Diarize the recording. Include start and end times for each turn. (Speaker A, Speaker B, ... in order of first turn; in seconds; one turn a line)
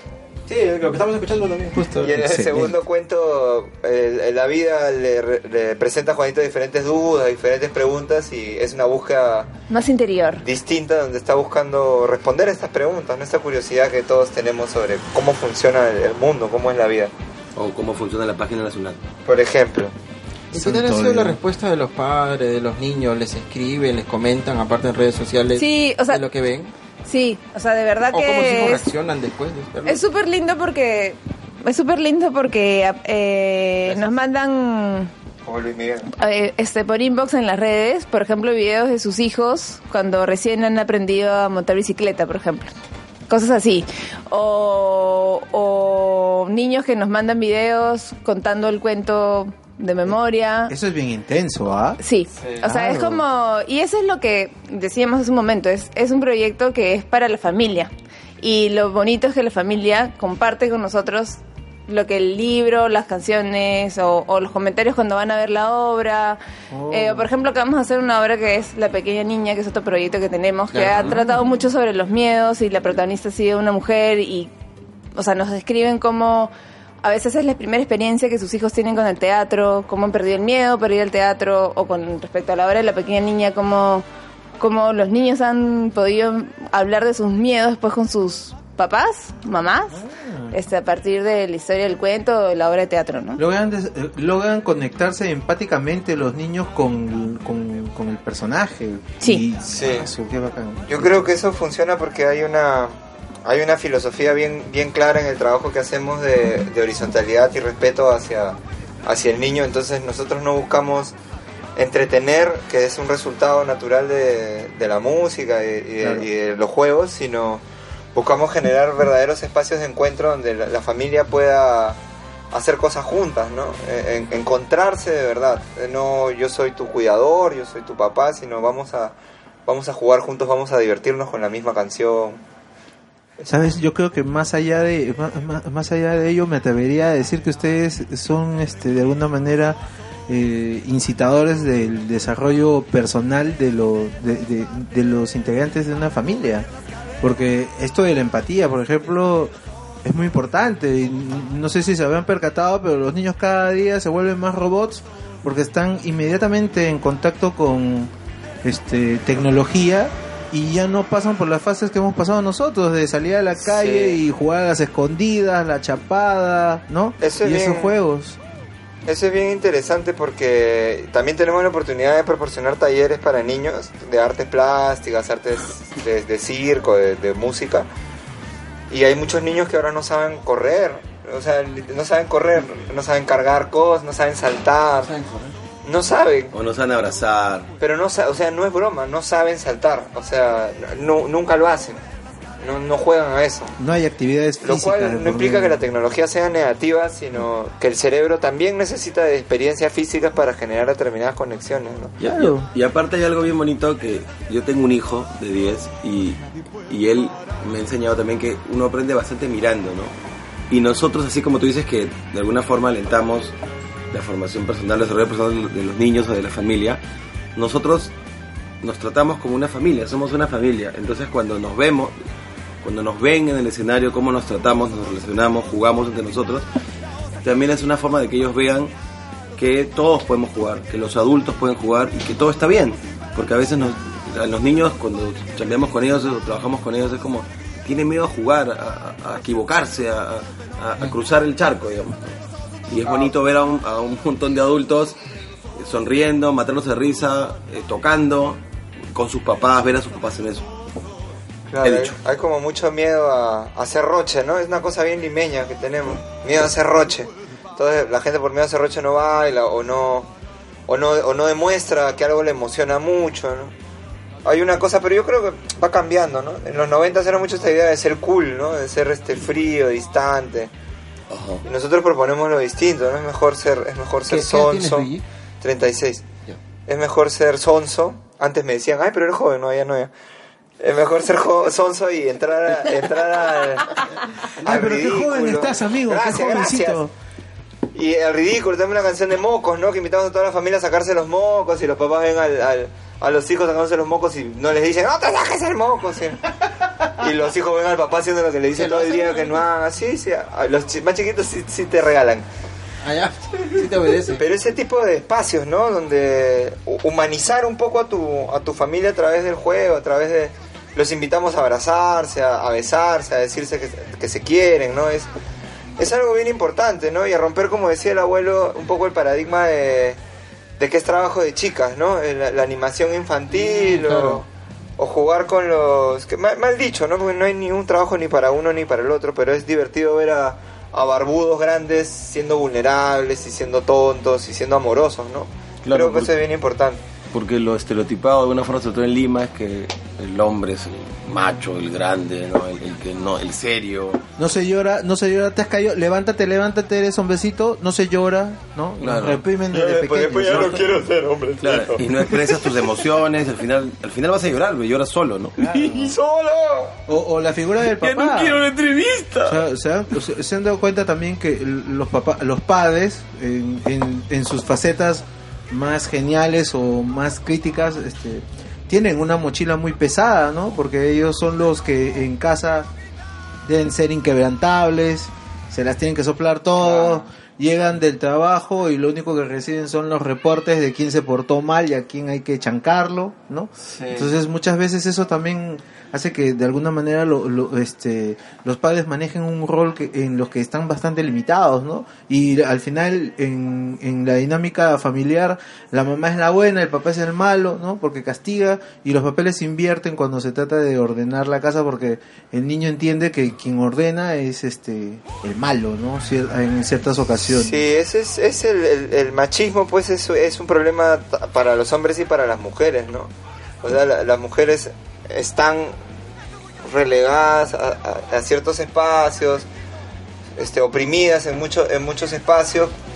Speaker A: 0.5-2.6
Speaker B: 2.0-9.5
Speaker C: 2.2-2.7
Speaker D: 9.7-10.4
Speaker B: 10.4-17.1
Speaker E: 17.5-19.0
Speaker B: 19.2-19.9
Speaker A: 20.5-26.7
Speaker C: 20.5-21.4
Speaker D: 25.6-26.2
Speaker D: 27.0-28.8
Speaker A: 28.1-30.0
Speaker D: 29.9-35.1
Speaker B: 35.4-36.1
Speaker D: 36.1-42.7
Speaker D: 43.3-50.7
Speaker C: 50.7-52.0
Speaker D: 52.0-74.5
Speaker C: 52.6-53.2
Speaker C: 66.7-67.3
Speaker A: 70.7-71.2
Speaker D: 75.1-76.5
Speaker D: 77.0-84.0
Speaker D: 84.6-93.4
Speaker C: 89.9-90.5
Speaker C: 93.4-101.3
Speaker B: 99.7-100.1
Speaker B: 100.9-111.1
Speaker B: 111.8-117.6
Speaker C: 116.0-116.3
Speaker B: 118.1-122.0
Speaker B: 122.5-129.1
Speaker B: 129.7-132.4
Speaker C: 133.4-146.7
Speaker C: 147.2-149.5
Speaker C: 150.0-158.1
Speaker C: 158.6-168.4
Speaker B: 163.6-164.2
Speaker B: 167.2-167.9
Speaker B: 169.1-177.9
Speaker B: 178.9-185.1
Speaker A: 185.0-185.5
Speaker B: 185.8-186.5
Speaker E: 186.5-187.7
Speaker B: 187.8-192.0
Speaker B: 192.6-193.7
Speaker C: 193.8-195.8
Speaker B: 194.6-202.2
Speaker C: 202.2-202.7
Speaker E: 202.2-210.1
Speaker E: 210.7-213.5
Speaker E: 214.1-217.0
Speaker E: 217.6-218.1
Speaker E: 218.8-222.1
Speaker E: 222.8-226.7
Speaker E: 227.4-228.9
Speaker E: 229.6-242.3
Speaker E: 242.9-245.2
Speaker E: 245.8-248.6
Speaker E: 249.1-250.7
Speaker B: 251.7-260.3
Speaker E: 251.8-252.1
Speaker B: 260.9-263.7
Speaker B: 264.4-270.7
Speaker E: 271.3-271.6
Speaker B: 271.6-276.2
Speaker A: 274.3-275.2
Speaker B: 276.9-280.1
Speaker B: 280.8-287.0
Speaker C: 284.6-287.1
Speaker B: 287.9-296.4
Speaker B: 297.0-302.4
Speaker A: 298.7-299.6
Speaker A: 303.0-304.4
Speaker B: 304.3-315.3
Speaker B: 316.0-320.2
Speaker B: 320.8-324.4
Speaker A: 323.5-324.4
Speaker B: 325.0-337.0
Speaker E: 335.8-336.3
Speaker E: 337.3-344.2
Speaker C: 344.4-350.9
Speaker E: 349.0-349.4
Speaker B: 349.7-352.1
Speaker E: 351.6-355.8
Speaker C: 355.6-356.1
Speaker B: 355.7-356.9
Speaker C: 357.1-358.6
Speaker E: 357.9-359.6
Speaker C: 359.4-372.9
Speaker C: 373.6-407.8
Speaker B: 376.8-377.2
Speaker B: 383.9-384.3
Speaker B: 407.5-413.3
Speaker B: 413.8-415.9
Speaker B: 416.8-419.7
Speaker B: 420.6-422.9